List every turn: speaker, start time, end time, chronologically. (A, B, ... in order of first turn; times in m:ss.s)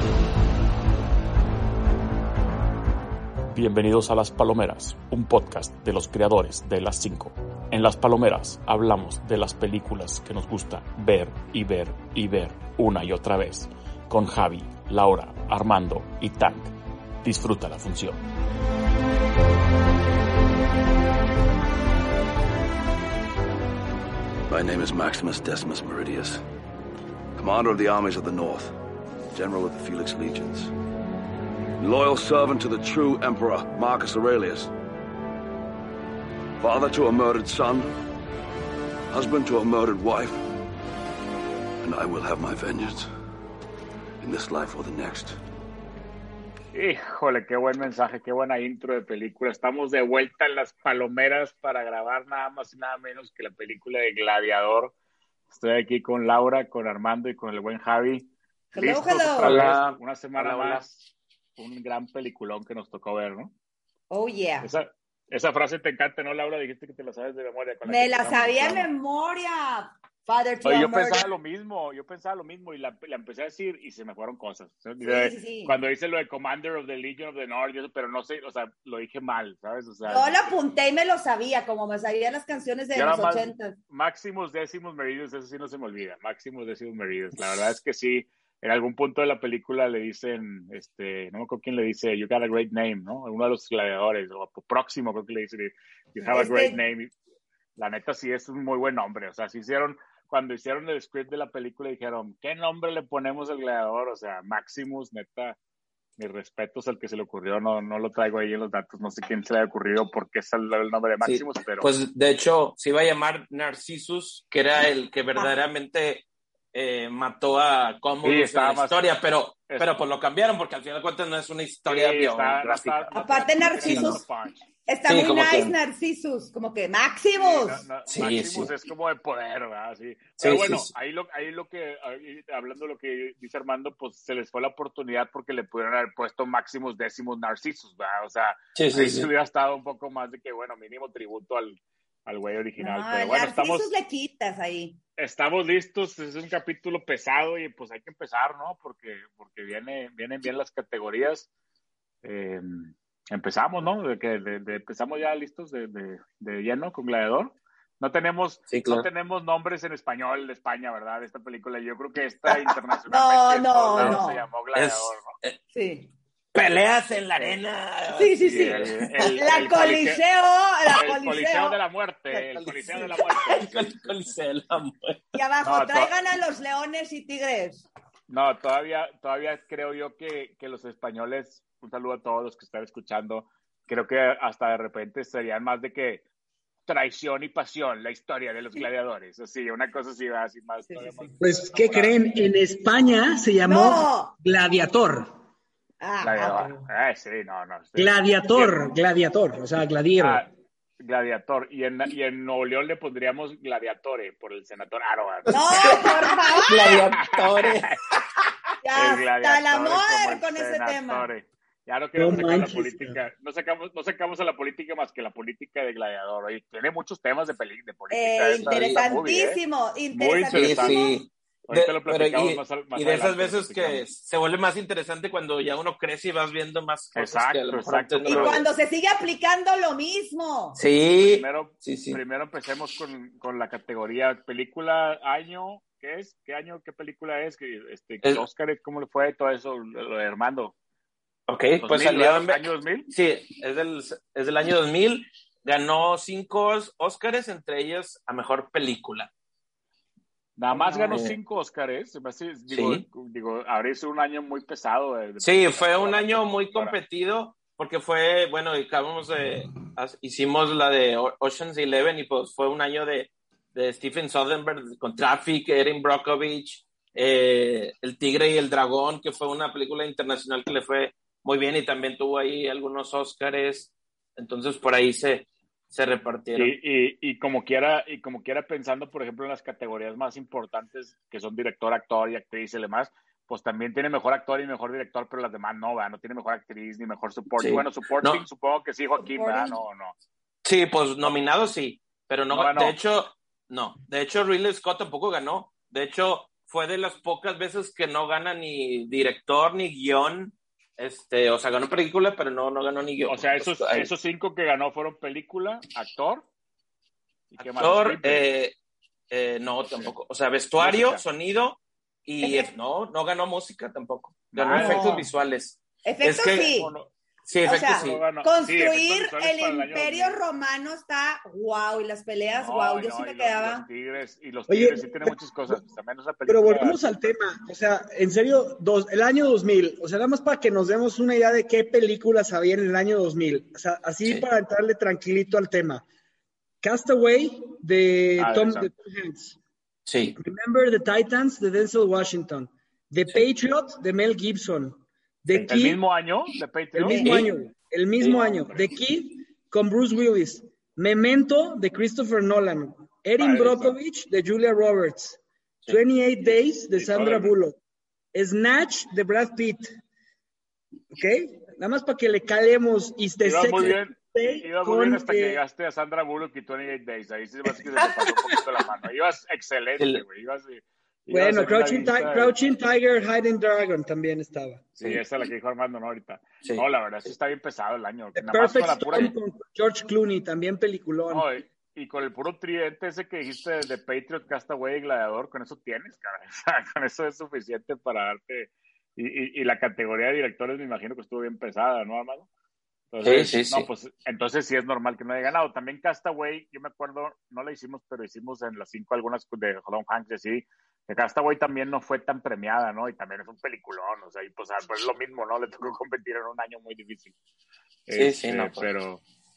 0:03.5-0:16.7 A
0:17.2-0:18.2 A
0:24.5-0:26.4 B
0:27.4-0:28.7 B
0:29.3-0:30.7 B
0:31.8-0:34.7 B
0:36.6-0:37.9 B
0:39.1-0:40.4 B
0:41.8-0:43.1 B
0:44.2-0:45.4 B
0:46.7-0:54.9 C
0:55.5-1:01.0 C
0:58.7-0:59.6 D
0:59.4-1:00.8 E
1:01.6-1:03.5 C
1:04.1-1:04.7 D
1:04.6-1:08.9 C
1:07.8-1:11.3 D
1:10.6-1:20.6 C
1:15.0-1:15.8 D
1:20.0-1:23.8 D
1:22.9-1:37.1 C
1:36.2-1:36.8 D
1:37.8-1:45.6 C
1:46.2-1:51.9 C
1:51.2-2:03.0 E
1:58.2-1:59.1 C
1:59.7-1:59.9 C
2:01.8-2:04.6 C
2:03.1-2:04.2 D
2:03.8-2:04.2 E
2:04.9-2:07.8 D
2:05.1-2:05.7 E
2:07.3-2:23.9 C
2:08.1-2:08.7 E
2:10.4-2:10.9 E
2:18.7-2:19.3 E
2:22.8-2:25.0 D
2:25.2-2:31.5 C
2:32.2-2:45.3 C
2:38.7-2:39.1 E
2:43.1-2:44.4 D
2:44.0-2:44.2 E
2:44.7-2:45.6 E
2:45.7-2:46.1 D
2:46.5-2:49.3 E
2:48.2-2:51.8 D
2:48.4-2:50.2 C
2:50.9-2:54.1 C
2:52.3-2:55.2 E
2:53.3-2:53.7 D
2:55.3-2:57.8 D
2:55.6-2:56.1 C
2:58.3-3:06.2 C
3:06.9-3:12.2 C
3:10.8-3:11.2 D
3:11.4-3:15.3 F
3:13.6-3:14.3 D
3:16.0-3:16.8 D
3:16.2-3:18.9 C
3:18.0-3:20.4 F
3:20.2-3:20.5 C
3:21.0-3:26.0 C
3:25.5-3:27.0 D
3:25.5-3:27.9 E
3:27.2-3:28.0 C
3:28.8-3:31.3 D
3:28.9-3:39.6 C
3:32.2-3:33.2 F
3:38.1-3:41.2 D
3:38.6-3:39.0 E
3:40.1-3:41.0 C
3:40.5-3:48.7 E
3:41.7-3:44.0 C
3:47.2-3:48.6 C
3:48.2-3:50.8 D
3:50.8-3:52.2 E
3:51.2-4:00.7 C
4:01.5-4:09.3 E
4:01.8-4:03.1 C
4:10.6-4:16.9 C
4:10.9-4:11.1 D
4:11.1-4:11.4 E
4:12.7-4:13.0 E
4:15.4-4:36.7 E
4:36.5-4:50.1 C
4:47.6-4:48.4 E
4:49.2-4:49.8 D
4:50.6-5:04.1 E
4:52.5-4:53.0 C
5:03.3-5:06.4 C
5:07.5-5:08.5 C
5:07.6-5:08.7 E
5:09.3-5:16.8 E
5:09.8-5:10.1 C
5:10.8-5:11.2 C
5:12.4-5:12.7 D
5:14.5-5:15.3 C
5:14.7-5:15.3 D
5:16.0-5:16.9 D
5:16.8-5:17.1 C
5:17.4-5:18.2 E
5:17.6-5:23.9 D
5:17.9-5:20.4 C
5:22.6-5:27.4 C
5:24.7-5:25.8 F
5:26.5-5:36.0 F
5:36.8-5:39.6 F
5:38.4-5:38.9 C
5:40.0-5:40.4 E
5:40.4-5:46.0 F
5:45.5-5:47.2 C
5:46.9-5:57.8 F
5:47.2-5:47.5 E
5:53.4-5:54.0 C
5:56.9-5:57.5 C
5:58.3-6:00.0 F
6:01.1-6:05.6 F
6:03.4-6:12.5 C
6:10.0-6:10.2 E
6:11.3-6:14.8 F
6:15.0-6:19.3 C
6:16.6-6:17.3 E
6:18.4-6:21.5 F
6:18.9-6:19.3 E
6:21.3-6:32.5 C
6:33.1-6:47.3 C
6:33.2-6:33.9 E
6:48.1-6:49.2 C
6:48.1-6:48.9 E